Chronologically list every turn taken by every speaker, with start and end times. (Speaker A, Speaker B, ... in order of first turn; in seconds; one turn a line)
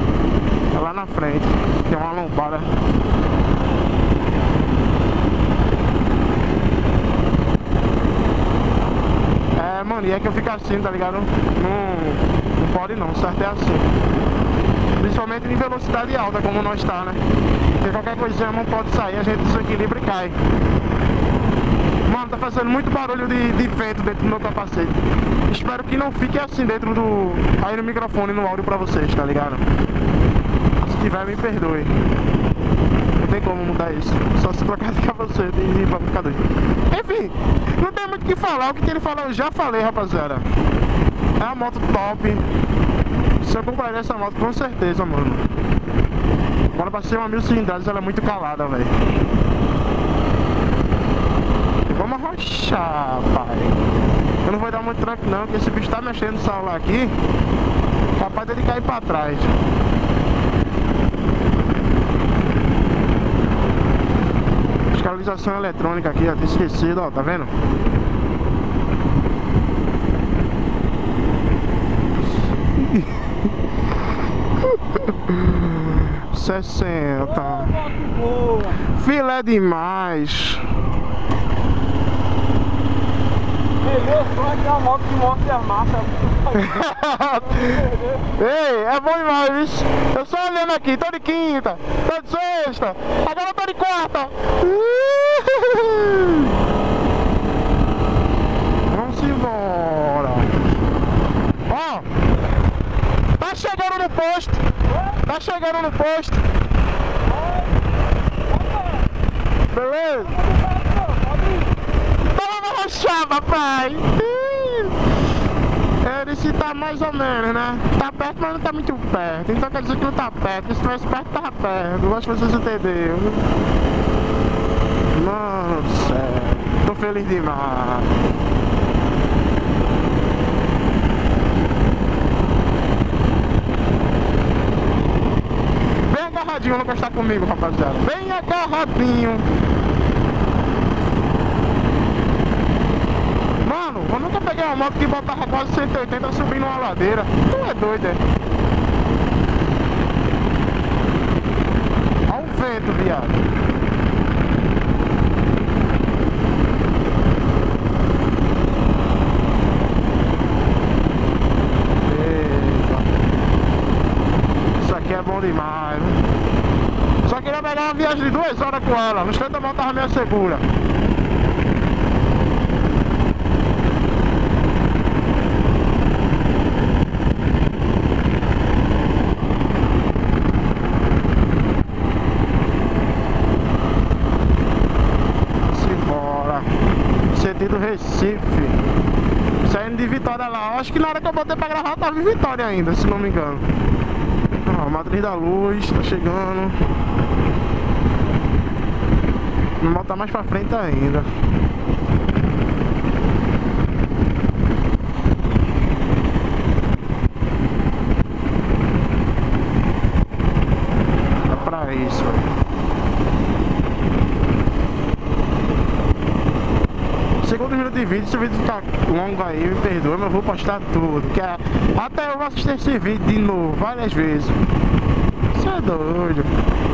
Speaker A: 0.7-2.7
Speaker A: 9.5-13.9
Speaker A: 15.0-17.2
Speaker A: 17.8-20.4
Speaker A: 22.1-29.6
Speaker A: 30.8-31.9
Speaker A: 33.1-40.5
Speaker A: 41.4-42.5
Speaker A: 43.4-45.5
Speaker A: 46.7-49.0
Speaker A: 51.9-53.8
Speaker A: 54.4-57.2
Speaker A: 58.2-59.6
Speaker A: 64.9-67.5
Speaker A: 72.7-73.3
Speaker A: 74.9-77.8
Speaker B: 77.2-78.8
Speaker A: 78.8-80.7
Speaker B: 83.8-88.3
Speaker A: 86.5-96.5
Speaker A: 98.9-100.5
Speaker A: 101.7-102.1
Speaker A: 103.4-104.6
Speaker A: 105.2-106.4
Speaker B: 107.3-107.8
Speaker B: 108.5-109.1
Speaker A: 109.7-110.4
Speaker B: 110.2-111.7
Speaker A: 112.3-115.0
Speaker A: 116.0-123.5
Speaker A: 125.1-128.1
Speaker A: 136.1-139.5
Speaker A: 143.6-148.2
Speaker A: 152.3-153.4
Speaker A: 162.1-163.1
Speaker A: 164.8-166.2
Speaker A: 167.2-170.7
Speaker A: 185.7-186.8
Speaker A: 187.3-188.8
Speaker A: 189.6-193.7
Speaker A: 194.6-196.8
Speaker A: 199.8-201.3
Speaker A: 211.5-212.5
Speaker A: 217.4-224.6
Speaker A: 225.5-226.5